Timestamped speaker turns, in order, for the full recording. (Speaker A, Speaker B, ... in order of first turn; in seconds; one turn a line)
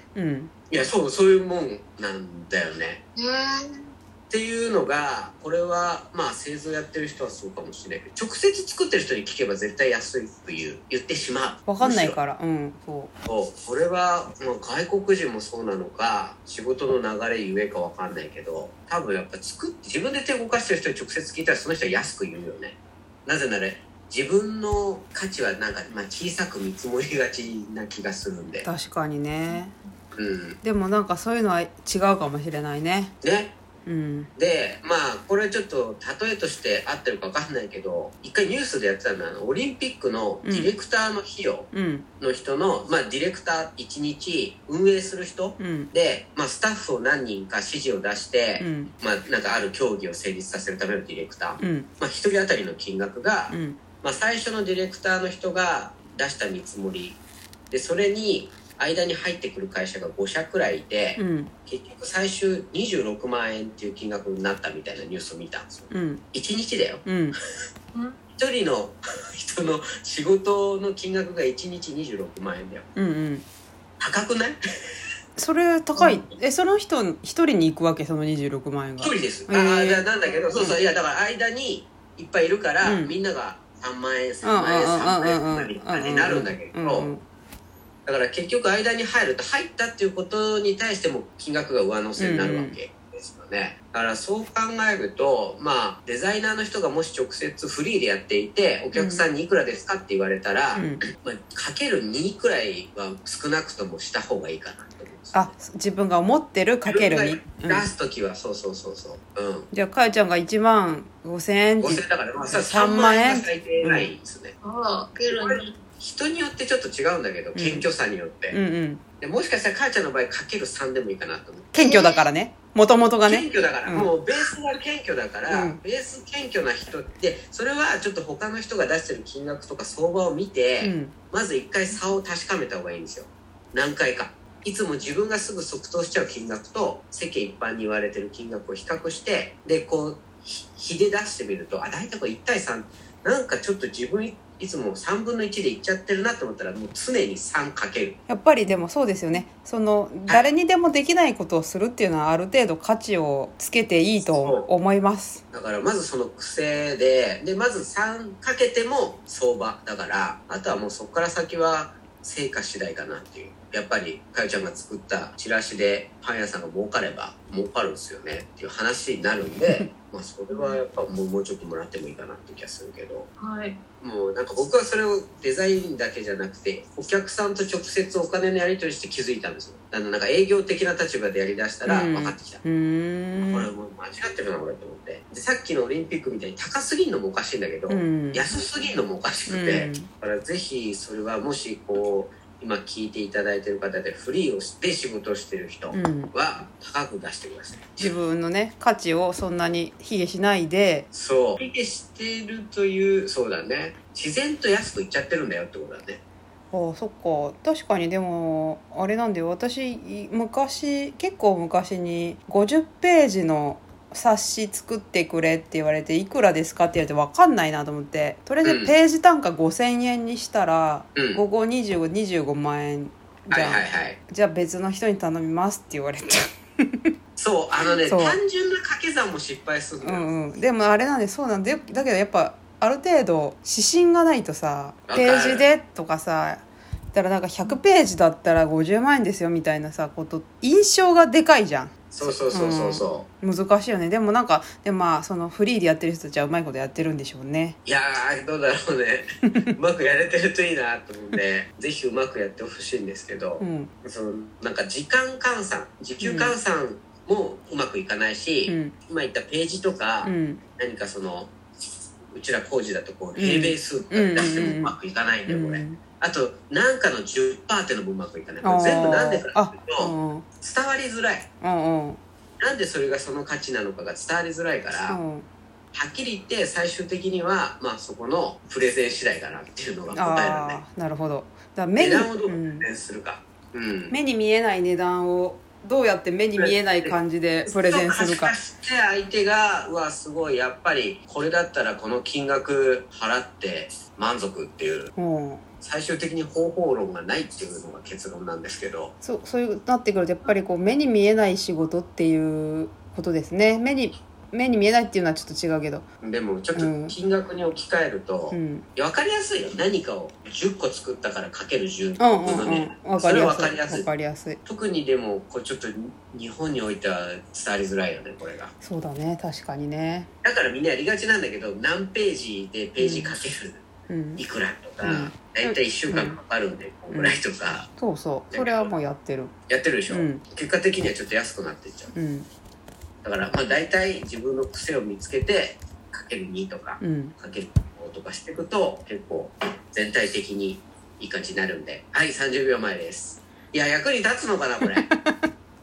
Speaker A: 0.1-0.5
Speaker B: 0.7-3.0
Speaker C: 3.2-3.9
Speaker B: 4.3-12.2
Speaker A: 11.7-13.1
Speaker B: 13.3-28.7
Speaker A: 28.6-29.7
Speaker B: 30.1-30.6
Speaker A: 30.6-33.1
Speaker B: 33.2-33.6
Speaker A: 33.9-34.3
Speaker B: 34.4-57.2
Speaker A: 40.4-40.7
Speaker A: 41.7-42.1
Speaker A: 45.6-45.9
Speaker A: 48.6-48.9
Speaker A: 51.6-51.9
Speaker A: 53.5-53.8
Speaker B: 57.7-67.1
Speaker A: 61.2-61.5
Speaker A: 65.9-66.2
Speaker A: 67.0-67.3
Speaker C: 67.9-68.2
Speaker B: 68.4-72.9
Speaker A: 73.0-73.5
Speaker B: 74.0-74.6
Speaker A: 75.4-80.8
Speaker B: 79.0-87.1
Speaker A: 82.8-83.2
Speaker A: 84.4-87.2
Speaker B: 88.1-105.5
Speaker A: 92.2-92.8
Speaker A: 98.9-99.3
Speaker A: 100.8-101.0
Speaker A: 105.3-107.9
Speaker B: 106.9-109.7
Speaker A: 109.7-114.1
Speaker B: 111.8-114.5
Speaker C: 114.6-115.8
Speaker B: 115.3-118.6
Speaker A: 117.5-117.9
Speaker A: 118.5-119.0
Speaker B: 119.2-121.8
Speaker A: 121.7-124.1
Speaker C: 121.8-122.2
Speaker B: 123.3-148.2
Speaker A: 125.5-125.8
Speaker A: 130.8-131.1
Speaker A: 148.3-155.4
Speaker B: 154.2-154.7
Speaker B: 155.5-173.3
Speaker C: 170.5-170.8
Speaker C: 173.4-173.8
Speaker B: 174.0-182.6
Speaker A: 181.8-183.7
Speaker B: 183.4-198.2
Speaker A: 187.9-188.5
Speaker A: 189.5-190.1
Speaker A: 195.9-196.3
Speaker A: 198.0-201.1
Speaker B: 201.1-206.2
Speaker A: 206.7-227.1
Speaker B: 218.6-218.9
Speaker B: 221.2-221.4
Speaker B: 223.5-224.2
Speaker B: 227.4-230.3
Speaker A: 228.1-228.4
Speaker A: 230.0-247.8
Speaker B: 235.1-235.7
Speaker B: 242.1-243.3
Speaker B: 247.8-261.6
Speaker A: 253.6-253.9
Speaker A: 256.2-256.6
Speaker A: 258.7-258.9
Speaker A: 260.2-260.6
Speaker B: 262.3-271.5
Speaker A: 263.4-264.9
Speaker A: 265.5-266.0
Speaker A: 268.6-270.5
Speaker A: 271.6-272.2
Speaker B: 272.6-275.2
Speaker A: 275.0-275.5
Speaker B: 275.9-280.8
Speaker A: 280.1-282.9
Speaker B: 282.0-284.1
Speaker A: 284.1-288.5
Speaker B: 286.6-295.1
Speaker A: 295.2-295.6
Speaker B: 295.8-299.1
Speaker A: 299.2-306.1
Speaker B: 306.2-314.1
Speaker A: 306.8-307.2
Speaker A: 308.5-308.9
Speaker A: 312.2-314.6
Speaker B: 314.6-318.7
Speaker A: 318.8-320.3
Speaker B: 320.4-323.8
Speaker A: 323.0-323.4
Speaker A: 324.1-324.4
Speaker B: 324.4-327.9
Speaker A: 325.0-326.4
Speaker A: 327.1-327.4
Speaker A: 328.0-329.5
Speaker B: 328.5-328.9
Speaker B: 329.7-332.1
Speaker A: 330.1-330.4
Speaker A: 332.1-332.5
Speaker B: 333.2-345.1
Speaker A: 337.0-337.4
Speaker A: 345.1-345.5